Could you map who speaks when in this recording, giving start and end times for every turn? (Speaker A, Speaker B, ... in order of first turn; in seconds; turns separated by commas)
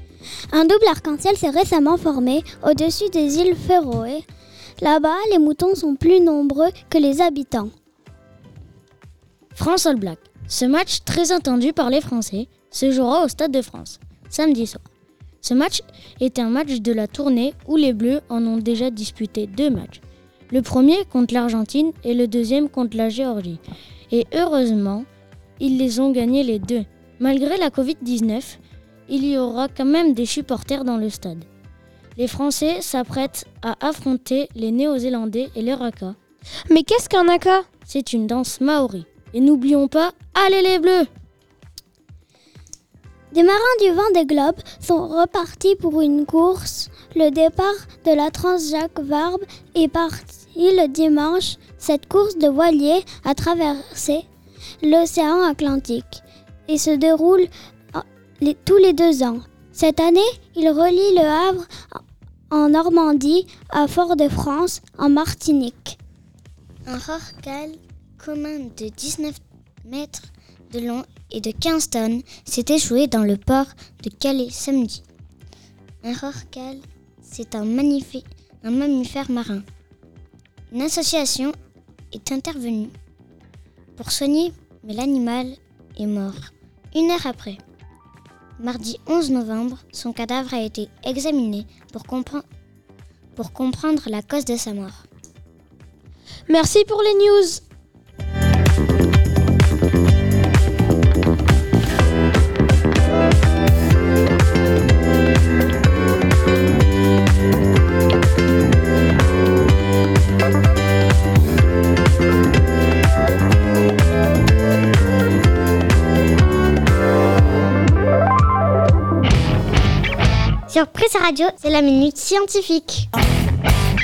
Speaker A: 0.5-4.2, Speaker A: 4.8-7.7, Speaker B: 9.6-14.8, Speaker B: 15.4-23.6, Speaker B: 24.1-25.1, Speaker B: 25.6-31.5, Speaker B: 32.2-36.2, Speaker C: 36.7-37.7, Speaker B: 37.9-41.1, Speaker A: 43.3-54.2, Speaker A: 54.8-62.0, Speaker A: 62.5-66.0, Speaker D: 66.9-75.0, Speaker D: 76.0-79.7, Speaker D: 80.7-81.6, Speaker D: 82.1-82.9, Speaker D: 84.0-87.6, Speaker D: 88.6-92.4, Speaker D: 93.4-95.1, Speaker C: 96.5-97.6, Speaker E: 120.7-123.0